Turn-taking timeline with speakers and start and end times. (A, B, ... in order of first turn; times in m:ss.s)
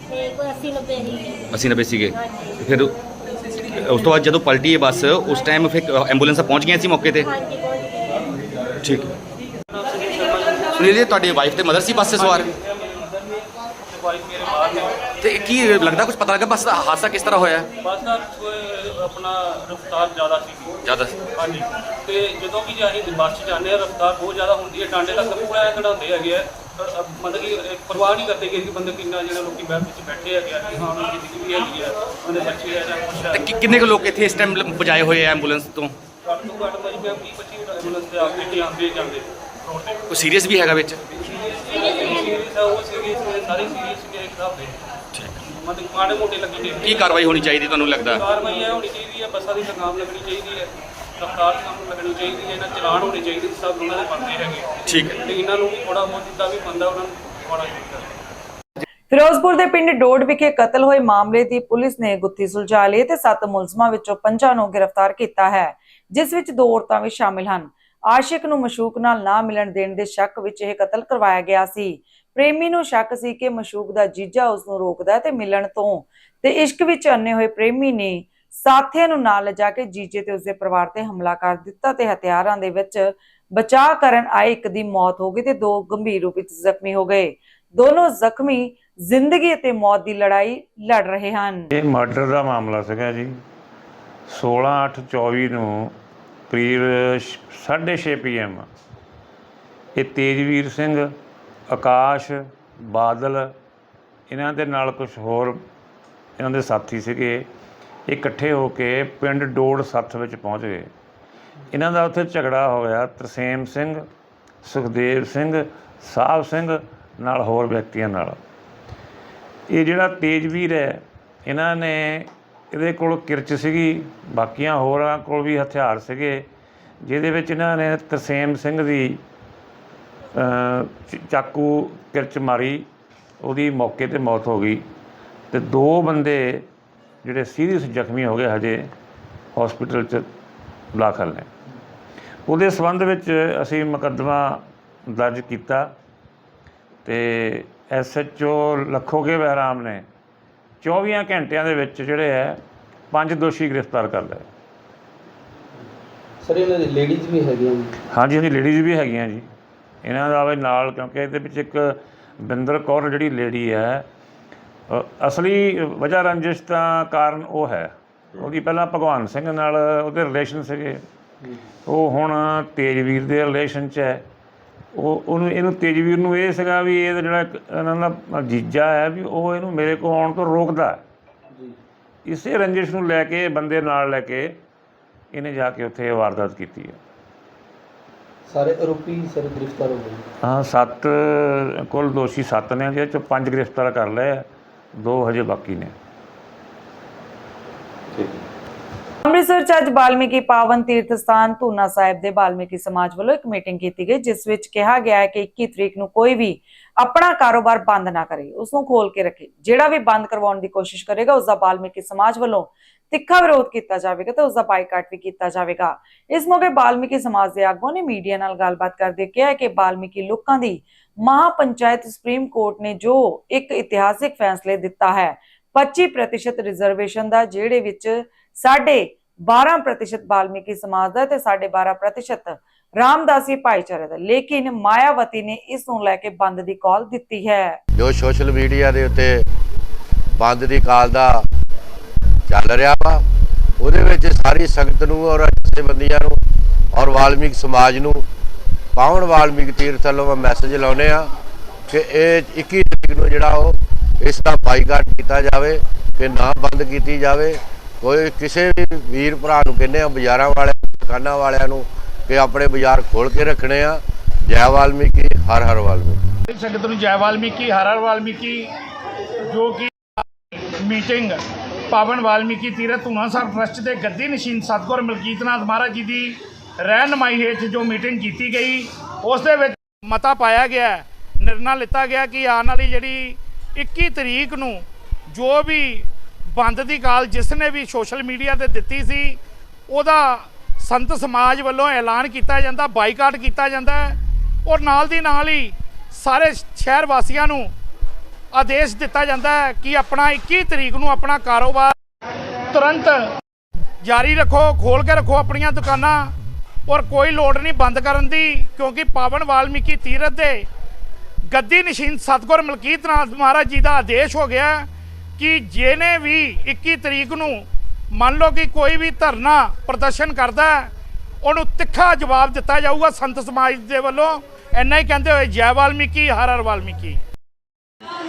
0:00.1-0:01.5 A
0:01.5-0:02.9 B
0:02.1-0:02.6 A
0:03.6-0:07.3 B
0:07.2-0:08.2 A
0:08.8-0:09.1 B
0:09.8-0:10.9 C
0:10.7-0:12.5 B
0:12.2-0:13.3 C
0:13.8-0:14.9 C
0:15.2-0:17.7 B
0:17.8-0:20.7 C
0:20.8-0:21.1 B
0:21.4-0:33.8 C
0:33.3-0:35.9 B
0:36.3-0:40.0 C
0:40.1-0:41.0 B
0:41.6-0:44.7 C
0:41.8-0:42.4 A
0:45.6-0:47.3 C
0:46.8-0:48.2 B
0:48.1-0:50.7 C
0:51.2-0:58.1 C
0:54.8-0:55.2 B
0:59.1-1:31.7 D
1:31.7-1:33.4 E
1:34.3-1:35.9 E
1:36.5-1:38.6 E
1:39.9-1:41.1 E
1:41.7-1:43.5 E
1:44.3-1:45.6 E
1:46.4-1:47.4 E
1:48.1-1:50.9 E
1:51.7-1:54.0 E
1:54.6-1:58.4 E
1:59.7-2:06.4 E
2:07.0-2:09.2 E
2:10.4-2:12.8 E
2:13.4-2:14.8 E
2:15.5-2:16.6 E
2:17.2-2:18.9 E
2:19.5-2:20.2 E
2:20.9-2:21.5 E
2:22.4-2:25.9 E
2:27.0-2:30.0 E
2:30.8-2:32.6 E
2:33.1-2:34.4 E
2:36.4-2:37.8 F
2:38.1-2:39.4 E
2:40.0-2:44.0 E
2:44.9-2:51.0 E
2:51.8-2:54.2 E
2:54.9-3:01.0 E
3:02.2-3:04.5 E
3:05.3-3:07.0 E
3:08.5-3:10.2 F
3:10.4-3:14.4 E
3:15.0-3:15.9 E
3:19.2-3:57.8 D
3:57.9-3:59.4 G
4:00.4-4:01.5 G
4:02.5-4:03.2 G
4:03.8-4:06.4 G
4:06.9-4:08.2 G
4:09.0-4:11.3 G
4:11.9-4:26.2 G
4:26.5-4:28.7 C
4:29.5-4:29.9 C
4:30.8-4:31.4 C
4:31.9-4:44.8 C
4:45.3-4:46.0 C
4:46.6-4:49.4 C
4:49.9-4:54.1 C
4:54.7-4:57.7 C
4:58.6-5:01.9 C
5:02.7-5:03.1 C
5:04.1-5:06.2 C
5:06.9-5:10.6 C
5:11.5-5:14.8 C
5:15.4-5:17.6 C
5:18.2-5:20.8 C
5:21.4-5:27.2 C